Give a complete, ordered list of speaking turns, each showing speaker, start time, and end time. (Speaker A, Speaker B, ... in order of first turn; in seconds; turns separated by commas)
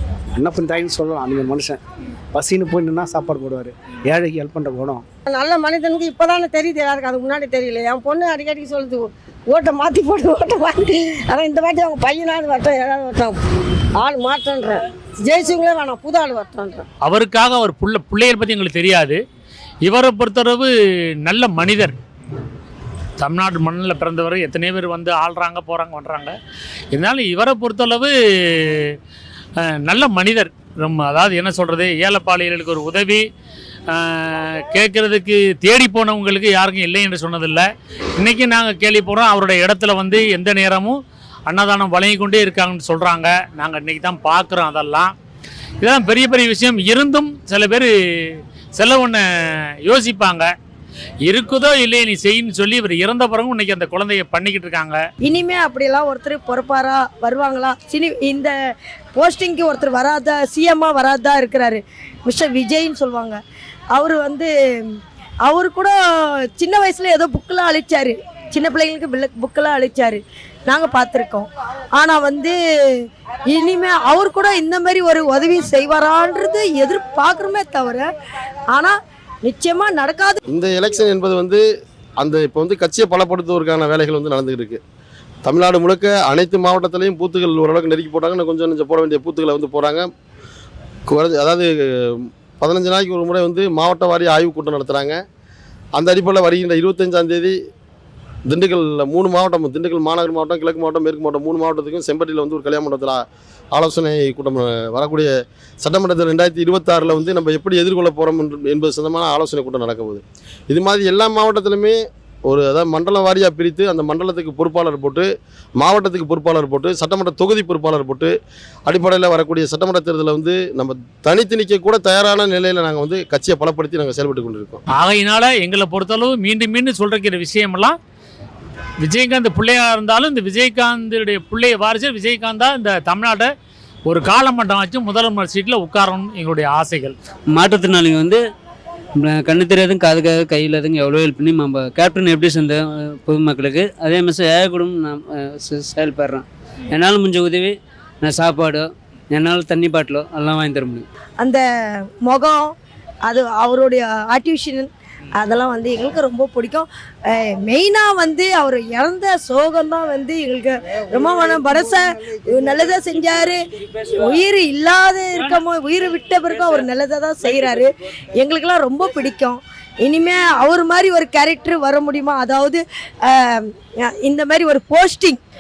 Speaker A: 0.4-1.8, Speaker A: 2.3-5.0, Speaker B: 5.3-13.4, Speaker B: 14.0-16.9, Speaker C: 17.0-19.2, Speaker C: 19.9-20.7, Speaker C: 21.2-22.0, Speaker C: 23.2-26.4, Speaker C: 26.9-29.0, Speaker C: 29.6-33.2, Speaker C: 33.9-37.7, Speaker C: 38.2-45.1, Speaker C: 45.8-50.5, Speaker C: 51.2-55.0, Speaker D: 55.2-58.5, Speaker D: 59.2-63.4, Speaker D: 63.9-66.0, Speaker D: 66.6-78.1, Speaker D: 79.5-80.4, Speaker E: 80.5-81.6, Speaker E: 82.2-84.8, Speaker E: 85.5-90.1, Speaker E: 91.1-95.2, Speaker E: 96.0-97.6, Speaker E: 98.5-103.2, Speaker E: 103.7-118.3, Speaker E: 118.9-124.8, Speaker C: 124.9-128.0, Speaker C: 129.0-133.5, Speaker C: 134.1-137.2, Speaker F: 137.5-138.4, Speaker F: 139.2-151.1, Speaker D: 152.2-152.7, Speaker D: 153.3-175.4